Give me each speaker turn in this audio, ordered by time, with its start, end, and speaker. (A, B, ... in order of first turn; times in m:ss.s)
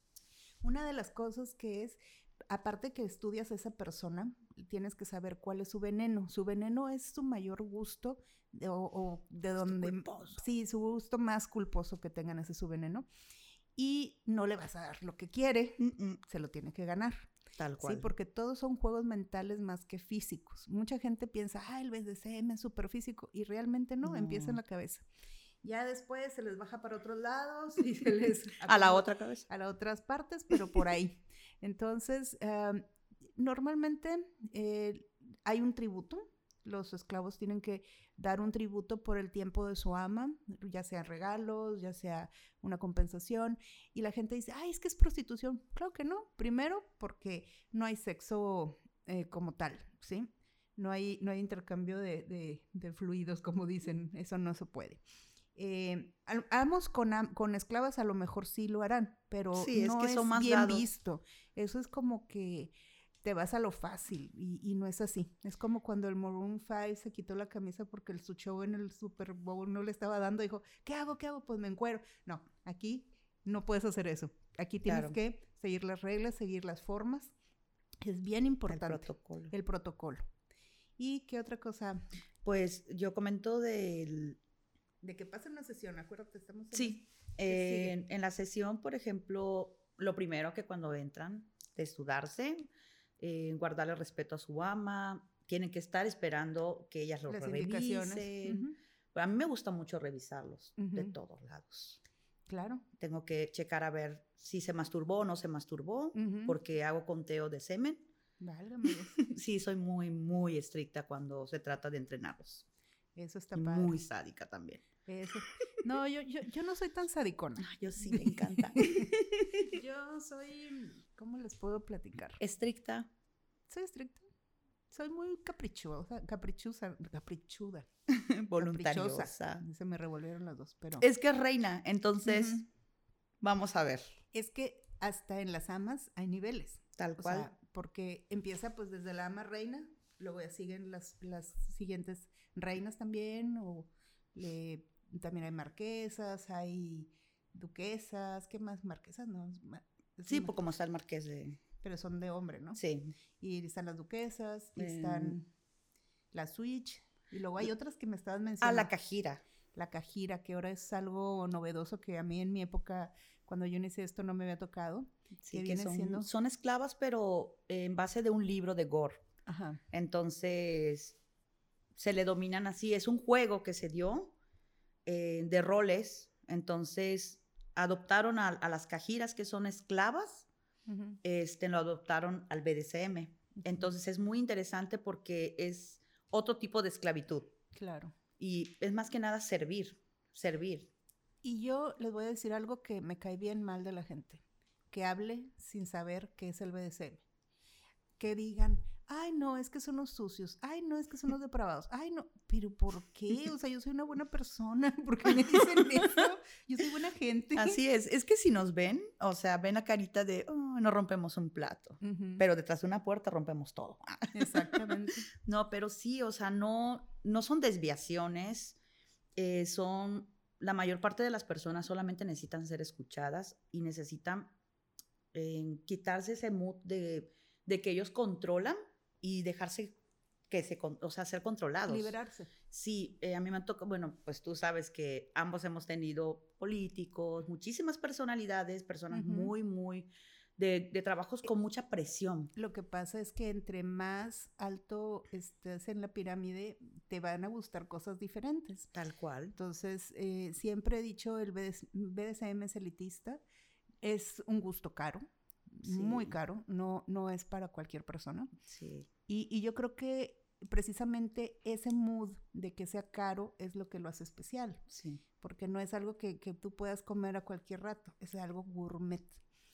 0:00.6-0:02.0 A
0:02.5-0:13.1 A
0:09.6-0:10.4 B
0:13.8-0:25.0 A
0:15.8-0:16.2 B
0:17.6-0:18.1 B
0:24.0-0:24.6 B
0:25.6-0:32.8 A
0:28.6-0:29.4 B
0:33.4-0:55.0 A
0:55.6-1:17.3 A
0:59.5-1:00.9 B
1:14.9-1:15.2 B
1:18.0-1:20.2 A
1:18.7-1:19.5 B
1:21.0-1:22.1 A
1:22.4-1:24.4 B
1:25.0-1:28.0 A
1:26.7-1:32.7 B
1:33.2-1:42.0 B
1:37.3-1:38.8 A
1:40.8-1:41.1 A
1:42.5-1:42.8 A
1:43.0-1:48.1 B
1:46.1-1:46.6 A
1:48.4-1:49.2 A
1:49.2-1:52.6 B
1:53.2-1:54.0 A
1:53.6-1:54.9 B
1:55.0-1:59.1 A
1:57.6-1:59.8 B
1:59.6-2:02.4 A
2:02.4-2:03.1 B
2:03.7-2:04.2 A
2:04.9-2:07.9 A
2:08.1-2:09.6 B
2:08.6-2:11.1 A
2:11.0-2:12.6 B
2:12.2-2:12.6 A
2:13.4-2:14.2 B
2:14.3-2:30.6 A
2:17.0-2:17.5 B
2:30.3-2:31.6 B
2:31.8-2:32.8 A
2:32.8-2:33.1 B
2:33.4-2:35.5 A
2:34.8-2:35.4 B
2:36.3-2:38.9 A
2:38.6-2:39.4 B
2:39.7-2:46.3 A
2:45.4-2:49.2 B
2:49.5-2:49.8 A
2:49.9-2:51.2 B
2:51.9-2:54.3 B
2:55.1-3:00.5 B
3:00.9-3:01.2 A
3:01.2-3:07.5 B
3:03.6-3:03.9 A
3:07.7-3:08.1 A
3:08.4-3:10.9 B
3:11.4-3:17.2 A
3:18.2-3:27.8 A
3:27.6-3:34.8 B
3:32.0-3:32.4 A
3:34.3-3:35.3 A
3:35.4-3:38.8 B
3:39.4-3:44.6 B
3:45.3-3:50.0 B
3:50.5-3:52.2 B
3:51.9-3:52.5 A
3:52.7-4:02.5 B
3:59.1-3:59.5 A
4:02.5-4:08.9 A
4:08.9-4:09.5 B
4:09.5-4:13.4 A
4:14.0-4:18.5 A
4:15.8-4:16.4 B
4:18.6-4:19.1 B
4:19.3-4:24.8 A
4:24.9-4:25.2 B
4:25.4-4:29.4 A